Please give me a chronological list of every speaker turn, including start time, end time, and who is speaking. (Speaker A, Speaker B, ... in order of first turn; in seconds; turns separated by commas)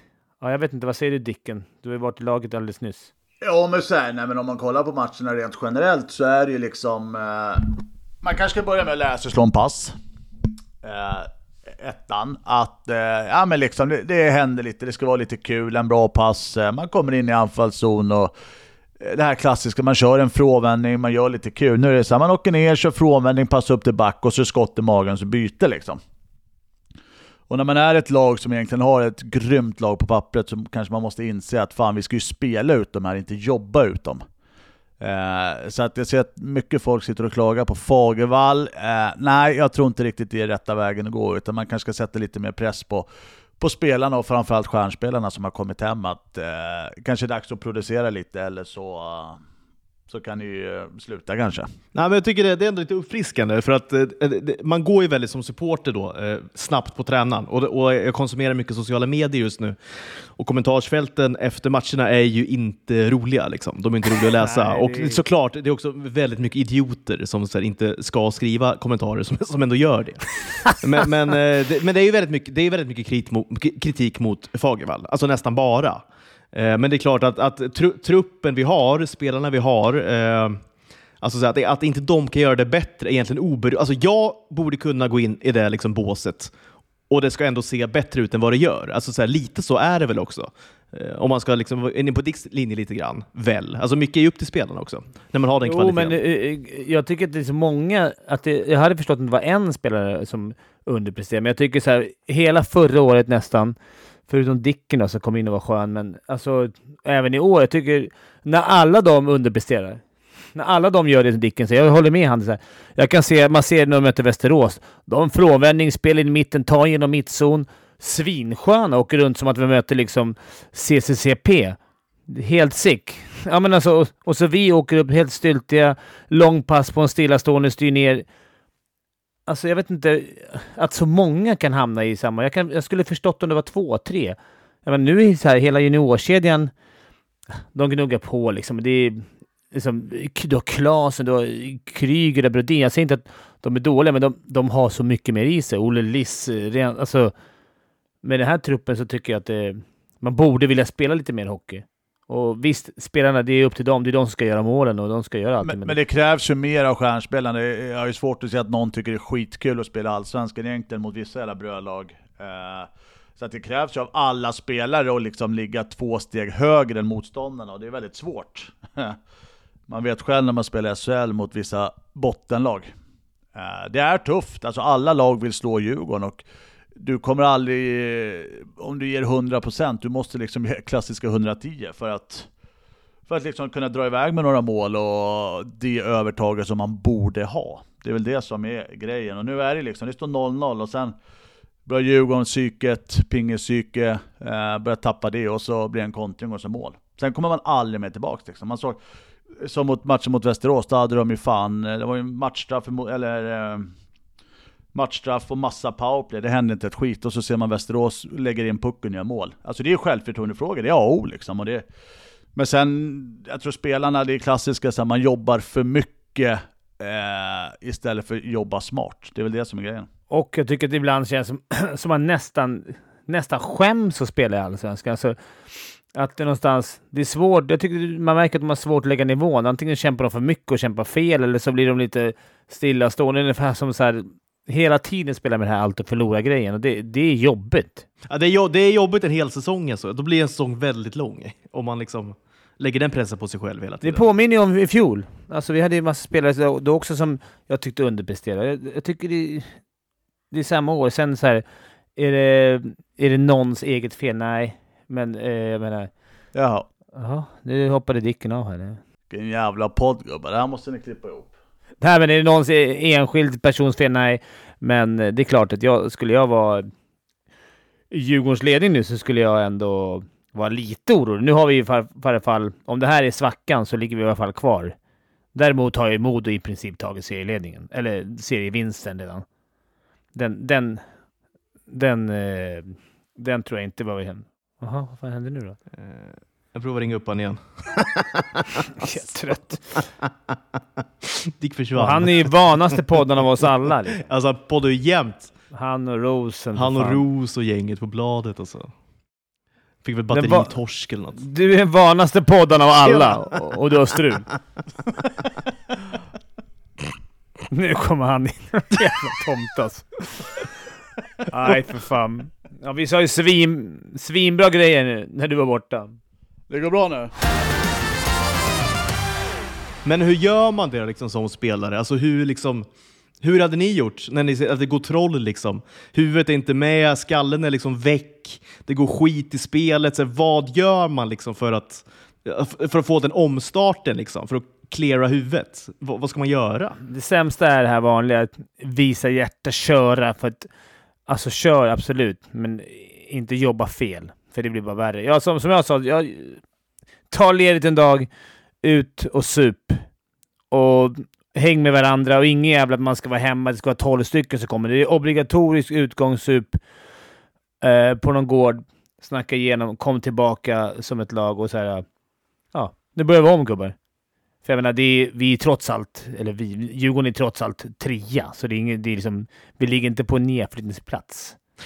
Speaker A: 0.4-3.1, Speaker B: 3.4-9.9, Speaker B: 10.8-18.3, Speaker B: 19.0-26.0, Speaker B: 27.5-34.2, Speaker B: 35.0-43.1, Speaker B: 43.6-49.4, Speaker B: 50.1-51.7, Speaker C: 52.0-80.6, Speaker A: 64.4-65.2, Speaker C: 81.2-86.5, Speaker C: 87.1-96.2, Speaker A: 95.6-103.8, Speaker A: 104.3-110.0, Speaker A: 110.5-128.2, Speaker A: 129.5-136.7, Speaker A: 137.7-147.3, Speaker A: 148.2-156.0, Speaker B: 155.6-169.2, Speaker B: 169.9-172.9, Speaker B: 173.6-176.4, Speaker B: 177.0-182.5, Speaker B: 183.3-191.2, Speaker B: 191.9-199.0, Speaker B: 199.6-203.9, Speaker B: 204.9-211.8, Speaker B: 212.6-220.1, Speaker A: 220.3-225.4, Speaker A: 226.1-238.1, Speaker C: 238.3-244.2, Speaker A: 244.0-249.8, Speaker A: 250.5-251.6, Speaker A: 252.2-256.1, Speaker B: 256.5-256.9, Speaker A: 257.1-259.0, Speaker B: 259.3-261.5, Speaker A: 262.0-266.9, Speaker A: 268.1-274.9, Speaker A: 275.5-279.4, Speaker A: 280.3-281.0, Speaker A: 281.9-285.8, Speaker C: 285.9-288.9, Speaker A: 289.0-290.0, Speaker C: 290.2-293.0, Speaker A: 291.9-294.2, Speaker C: 294.2-295.5, Speaker A: 295.7-297.2, Speaker C: 296.8-298.9, Speaker C: 300.0-301.4, Speaker A: 300.3-300.7, Speaker A: 301.4-304.5, Speaker C: 303.1-303.7, Speaker A: 307.7-310.4, Speaker A: 311.5-316.2, Speaker B: 316.7-317.3, Speaker C: 320.1-322.9, Speaker C: 323.4-337.0, Speaker A: 337.0-340.7, Speaker A: 341.3-346.6, Speaker A: 347.3-348.3, Speaker A: 348.8-350.0, Speaker A: 350.7-356.8, Speaker A: 357.8-362.1, Speaker A: 362.7-364.0, Speaker A: 364.6-371.6